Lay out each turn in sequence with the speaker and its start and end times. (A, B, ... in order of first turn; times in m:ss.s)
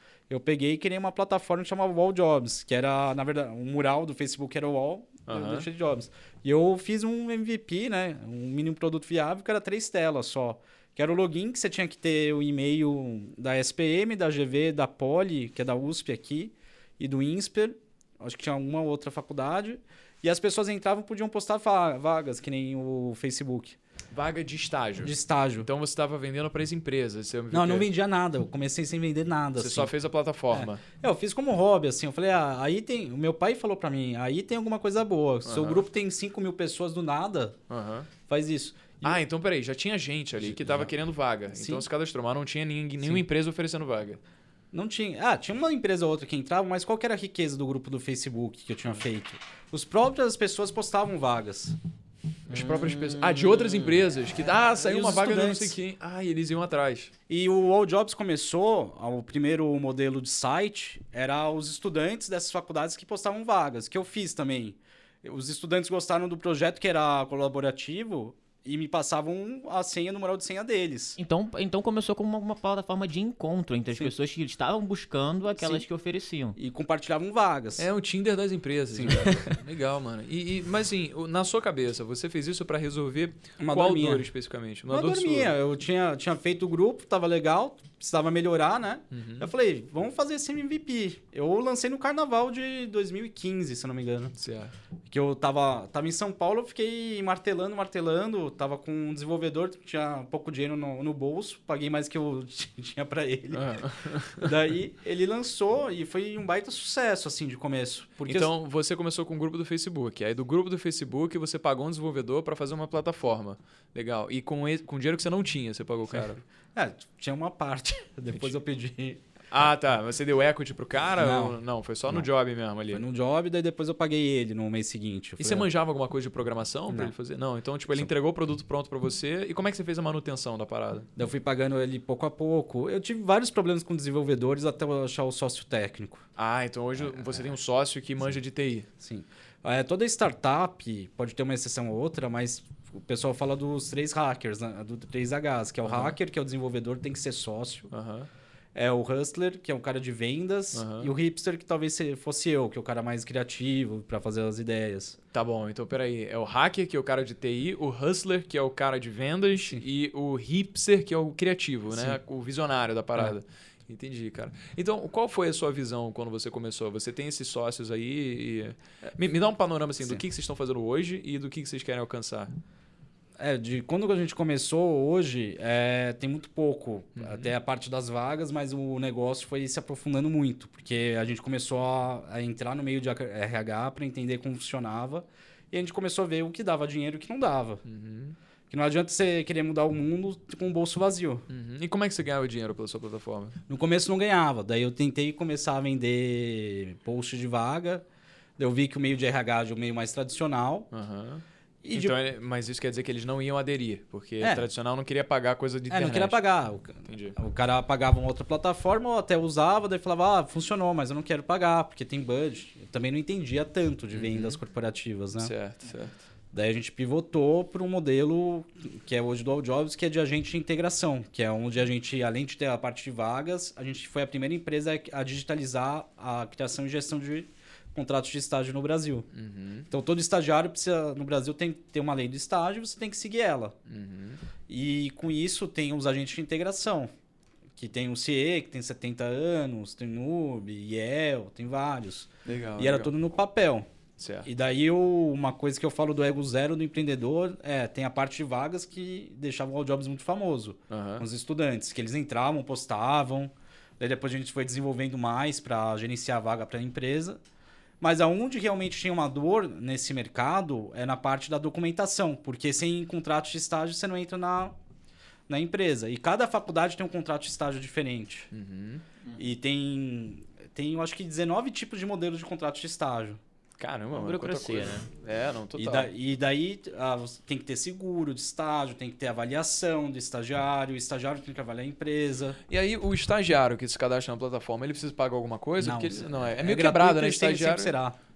0:00.3-0:23.8 A
0:05.3-0:05.7 B
0:24.1-0:27.9 B
0:25.0-0:25.7 A
0:27.5-0:29.9 A
0:29.6-0:30.8 B
0:30.5-0:37.6 A
0:35.4-0:35.8 B
0:37.7-0:38.1 B
0:38.3-0:39.2 A
0:39.0-0:44.2 B
0:40.4-0:40.9 A
0:41.5-0:41.8 A
0:44.7-0:51.8 A
0:52.5-0:57.1 B
0:52.5-0:54.0 C
0:54.4-0:55.8 A
0:57.3-1:11.2 A
1:11.2-1:16.6 C
1:15.5-1:15.8 A
1:16.6-1:17.9 A
1:17.8-1:25.5 B
1:18.9-1:19.6 A
1:23.6-1:24.2 A
1:24.9-1:34.3 A
1:29.1-1:29.5 B
1:34.4-1:34.7 B
1:35.1-1:43.8 A
1:43.5-1:44.5 B
1:44.4-1:48.5 A
1:48.3-1:56.4 B
1:56.1-1:59.2 A
1:59.5-2:03.0 B
2:01.2-2:02.3 A
2:02.9-2:05.7 A
2:05.4-2:11.1 B
2:11.2-2:16.3 A
2:16.4-2:18.9 B
2:17.0-2:17.5 A
2:19.0-2:27.9 A
2:25.8-2:26.2 B
2:27.9-2:28.3 B
2:28.7-2:35.2 A
2:30.7-2:31.1 B
2:35.3-2:52.5 B
2:41.9-2:42.2 A
2:53.4-3:07.8 A
2:57.2-2:57.5 B
3:07.8-3:08.4 B
3:08.7-3:11.5 A
3:11.5-3:13.6 B
3:13.7-3:18.0 A
3:18.6-3:20.9 A
3:20.9-3:26.4 B
3:21.8-3:22.2 A
3:24.4-3:24.6 A
3:25.9-3:35.5 A
3:27.0-3:27.4 B
3:34.1-3:34.6 B
3:35.4-3:36.2 B
3:36.5-3:49.3 A
3:49.3-3:49.9 B
3:49.9-3:53.7 A
3:53.9-3:54.4 B
3:54.7-3:57.1 A
3:57.8-4:03.9 A
4:02.4-4:03.1 B
4:04.2-4:04.5 B
4:04.4-4:17.4 A
4:10.9-4:11.2 B
4:18.0-4:24.8 A
4:25.5-4:28.5 A
4:28.5-4:29.0 B
4:29.4-4:33.4 A
4:33.8-4:36.1 B
4:34.1-4:35.1 C
4:35.7-4:42.6 A
4:42.7-4:48.0 B
4:45.8-4:48.2 A